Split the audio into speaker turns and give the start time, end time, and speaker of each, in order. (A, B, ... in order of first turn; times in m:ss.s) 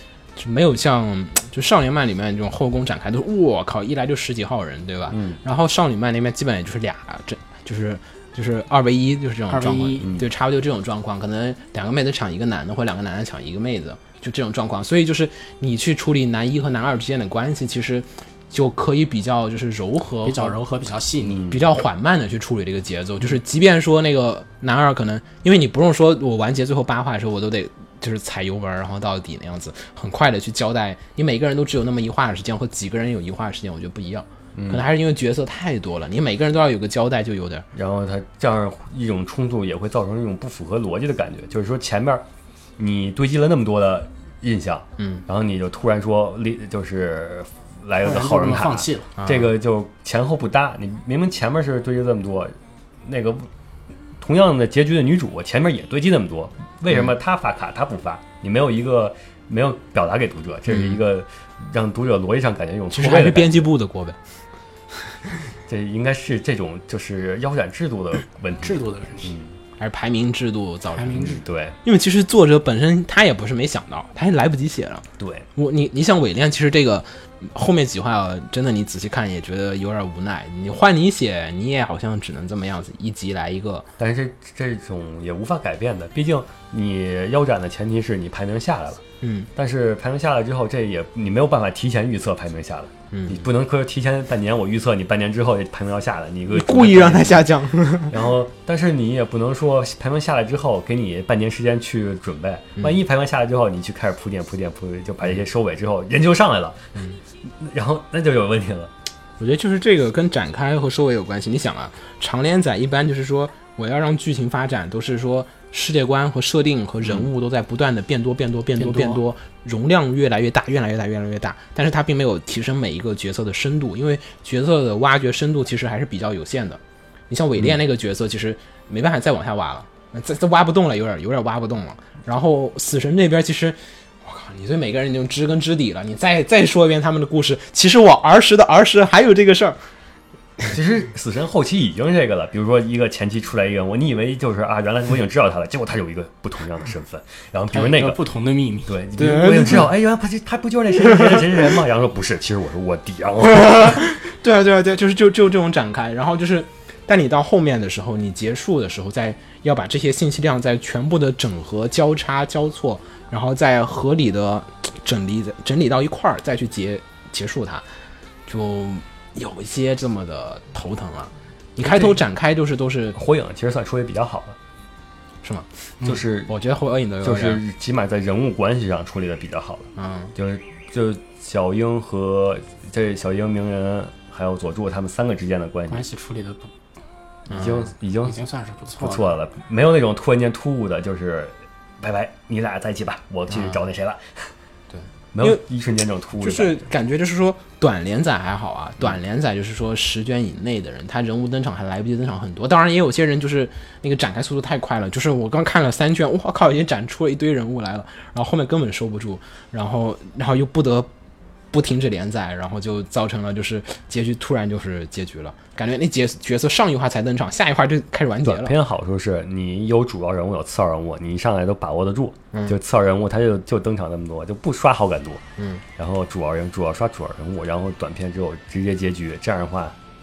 0:00.4-0:20.6 A
0:05.1-0:05.4 B
0:09.5-0:10.1 C
0:10.0-0:10.3 B
0:20.2-0:21.4 C
0:21.3-0:21.6 B
0:21.5-0:37.6 A
0:34.5-0:34.8 B
0:37.7-0:42.2 B
0:42.8-0:53.5 B
0:45.0-0:45.2 A
0:48.0-0:49.1 C
0:49.2-0:49.5 A
0:54.2-1:03.7 B
1:00.7-1:01.0 A
1:02.9-1:04.2 A
1:05.7-1:09.6 B
1:08.6-1:09.3 C
1:09.8-1:15.0 A
1:10.9-1:11.4 C
1:11.1-1:11.8 B
1:15.2-1:15.5 B
1:15.6-1:23.8 A
1:24.0-1:29.0 B
1:29.2-1:29.5 A
1:29.6-1:46.9 B
1:33.1-1:33.4 A
1:36.5-1:38.1 A
1:47.4-1:48.9 B
1:49.4-2:19.8 A
1:58.8-1:59.2 C
2:20.7-2:28.2 B
2:27.7-2:29.0 C
2:28.8-2:34.0 B
2:29.2-2:29.8 A
2:33.8-2:47.8 A
2:48.5-2:53.2 A
2:53.1-2:54.6 B
2:55.4-2:55.9 A
2:56.0-2:56.5 B
2:56.5-2:57.6 A
2:57.2-3:06.0 B
3:00.0-3:00.3 A
3:05.9-3:06.7 C
3:07.5-3:07.9 A
3:07.5-3:08.4 B
3:08.2-3:09.3 C
3:09.0-3:14.5 B
3:13.5-3:13.8 A
3:14.9-3:15.6 A
3:15.3-3:16.8 B
3:16.4-3:31.1 A
3:31.7-3:38.7 A
3:38.4-3:45.4 B
3:45.6-3:45.8 A
3:46.0-3:50.0 B